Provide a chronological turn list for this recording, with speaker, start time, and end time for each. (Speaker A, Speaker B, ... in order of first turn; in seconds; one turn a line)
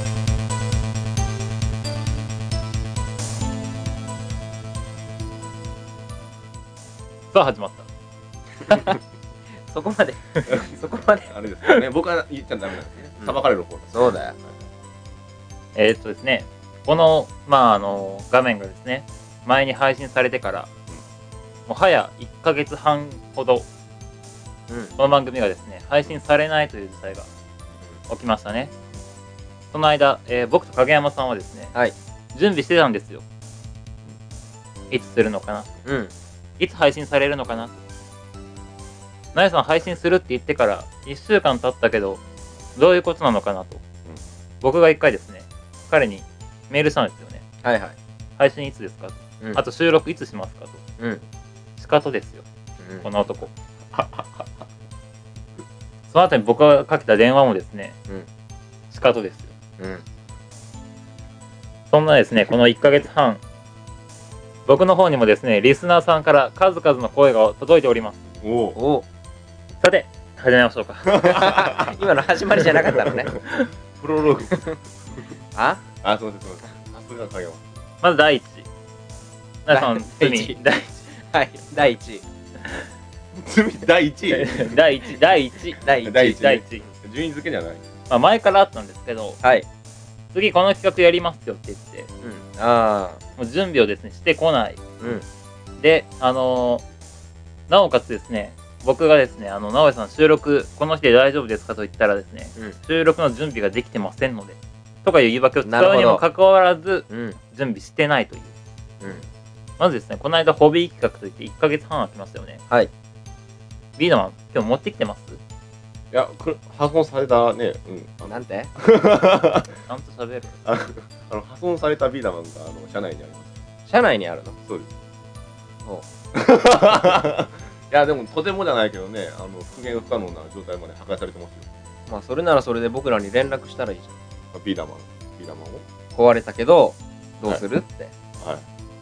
Speaker A: 7.3-7.9
Speaker B: 8.7-8.9
Speaker B: 9.7-11.3
Speaker C: 10.5-10.8
Speaker C: 11.3-14.6
Speaker B: 13.9-14.4
Speaker A: 15.8-20.7
Speaker A: 21.7-23.7
Speaker A: 25.0-27.3
Speaker A: 28.1-28.7
Speaker A: 29.7-31.7
Speaker A: 32.3-33.2
Speaker A: 34.9-35.7
Speaker B: 35.9-36.1
Speaker A: 36.6-37.8
Speaker A: 39.3-42.2
Speaker A: 42.8-43.8
Speaker A: 44.6-47.4
Speaker B: 47.6-48.0
Speaker A: 48.4-50.8
Speaker A: 51.8-52.5
Speaker B: 52.8-53.1
Speaker A: 53.0-53.5
Speaker C: 53.9-54.3
Speaker A: 56.1-58.0
Speaker A: 58.9-59.5
Speaker A: 61.9-63.4
Speaker A: 64.7-68.3
Speaker C: 68.4-68.8
Speaker B: 68.8-69.0
Speaker A: 69.8-71.5
Speaker C: 71.1-72.0
Speaker B: 71.3-73.3
Speaker C: 72.8-73.4
Speaker C: 74.0-74.7
Speaker B: 74.5-74.8
Speaker B: 75.5-75.8
Speaker C: 76.0-77.7
Speaker A: 78.0-78.7
Speaker A: 79.7-81.1
Speaker B: 79.7-80.6
Speaker B: 81.2-82.2
Speaker C: 83.3-84.8
Speaker B: 84.3-85.2
Speaker A: 84.5-86.8
Speaker B: 85.8-86.6
Speaker C: 86.0-87.8
Speaker A: 88.1-89.4
Speaker A: 90.3-92.1
Speaker B: 92.2-93.2
Speaker A: 93.4-95.2
Speaker A: 95.8-96.8
Speaker A: 97.7-108.5
Speaker B: 105.7-106.2
Speaker B: 107.1-107.4
Speaker A: 109.8-112.6
Speaker A: 114.0-115.4
Speaker C: 116.1-119.7
Speaker B: 118.3-118.7
Speaker A: 119.9-120.6
Speaker C: 120.7-123.6
Speaker B: 123.9-124.6
Speaker C: 124.7-124.9
Speaker C: 126.3-131.7
Speaker B: 132.1-134.2
Speaker C: 134.5-135.9
Speaker B: 136.1-138.1
Speaker C: 138.4-138.6